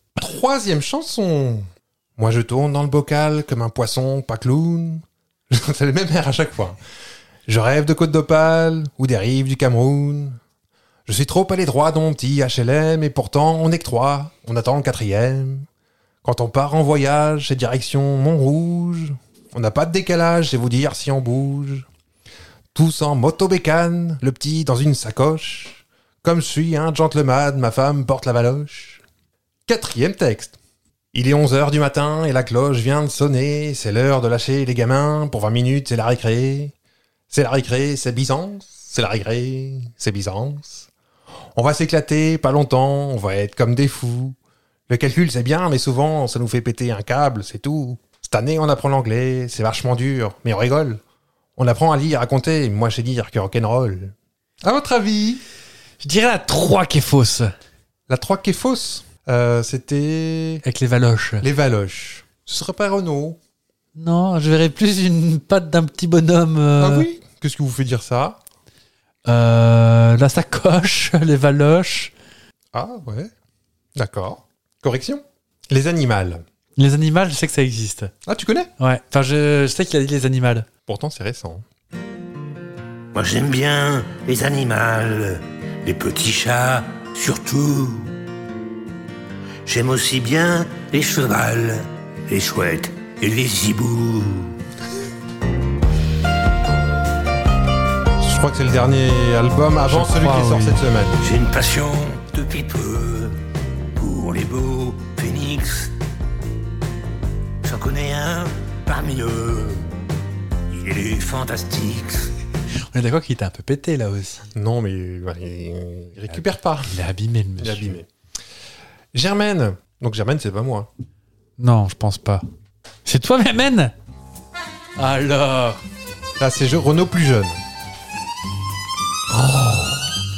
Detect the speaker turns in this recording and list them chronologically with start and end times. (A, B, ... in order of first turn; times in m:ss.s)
0:00.2-0:06.8 A
0:07.5-0:10.4 A
0:11.1-0:15.7 A
0:16.2-0:21.9 A
0:22.7-0:29.0 A
0:29.7-0:30.6 A
0:31.1-0:36.7 A
0:37.3-0:40.9 A
0:41.6-0:44.4 A
0:44.9-0:51.0 A
0:51.6-0:55.4 A
0:56.0-0:57.5 B
0:58.1-1:00.6 A
1:00.6-1:01.5 B
1:01.4-1:03.4 A
1:04.0-1:07.1 B
1:06.8-1:08.4 A
1:09.3-1:12.1 B
1:12.7-1:13.3 A
1:14.0-1:16.4 A
1:16.8-1:18.1 B
1:18.2-1:18.7 A
1:18.8-1:20.7 B
1:20.9-1:21.6 A
1:23.1-1:28.1 C
1:29.6-1:34.6 C
1:38.2-1:41.2 A
1:39.9-1:40.8 B
1:41.2-1:43.4 C
1:44.0-1:45.9 C
1:47.6-1:49.9 C
1:50.7-1:52.3 C
1:52.9-1:54.5 B
1:54.5-1:57.0 A
1:56.3-1:58.0 B
1:57.6-1:58.1 A
1:59.1-2:00.9 A
2:01.6-2:02.4 B
2:03.0-2:03.9 B
2:05.0-2:05.8 B
2:06.4-2:07.6 A
2:09.3-2:10.1 B